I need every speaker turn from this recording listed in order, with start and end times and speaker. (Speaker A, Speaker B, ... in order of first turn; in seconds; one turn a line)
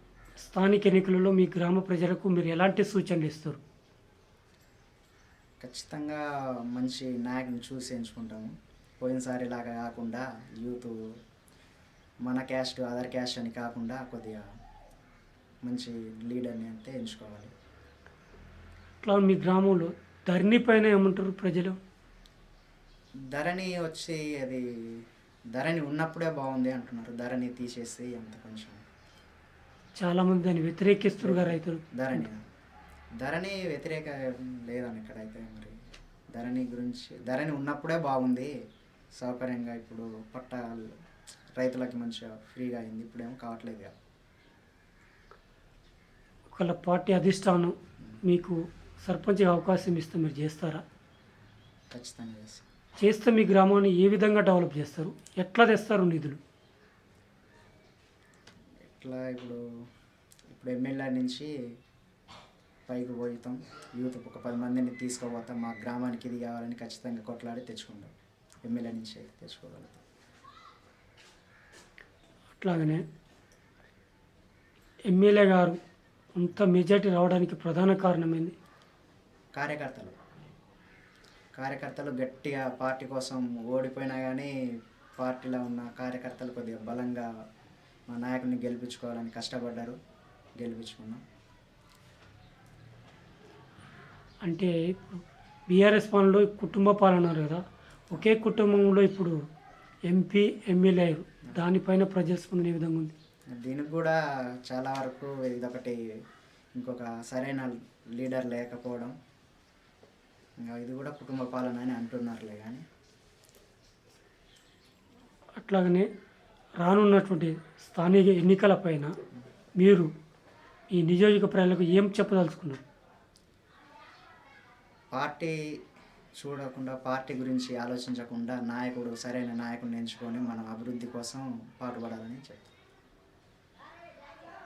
Speaker A: 0.4-3.6
Speaker B: 5.6-11.2
Speaker B: 12.2-14.4
Speaker B: 15.6-17.5
Speaker A: 19.0-21.8
Speaker B: 23.3-25.0
Speaker B: 25.5-28.8
Speaker A: 30.0-32.2
Speaker B: 31.2-32.4
Speaker B: 33.2-35.8
Speaker B: 36.3-38.5
Speaker B: 39.2-40.9
Speaker B: 41.6-43.9
Speaker A: 46.5-50.8
Speaker B: 51.9-52.7
Speaker A: 53.0-56.4
Speaker B: 59.0-59.6
Speaker B: 60.5-61.5
Speaker B: 62.9-68.1
Speaker B: 68.6-70.0
Speaker A: 72.6-73.0
Speaker A: 75.1-75.8
Speaker A: 76.3-78.5
Speaker B: 79.5-80.1
Speaker B: 81.6-84.5
Speaker B: 85.2-87.3
Speaker B: 88.1-90.0
Speaker B: 90.6-91.2
Speaker A: 94.4-99.4
Speaker A: 100.1-103.1
Speaker B: 103.5-106.0
Speaker B: 106.8-109.2
Speaker B: 110.6-112.8
Speaker A: 115.6-116.1
Speaker A: 116.8-119.1
Speaker A: 119.8-120.1
Speaker A: 120.9-122.8
Speaker B: 125.1-125.5
Speaker B: 126.4-132.7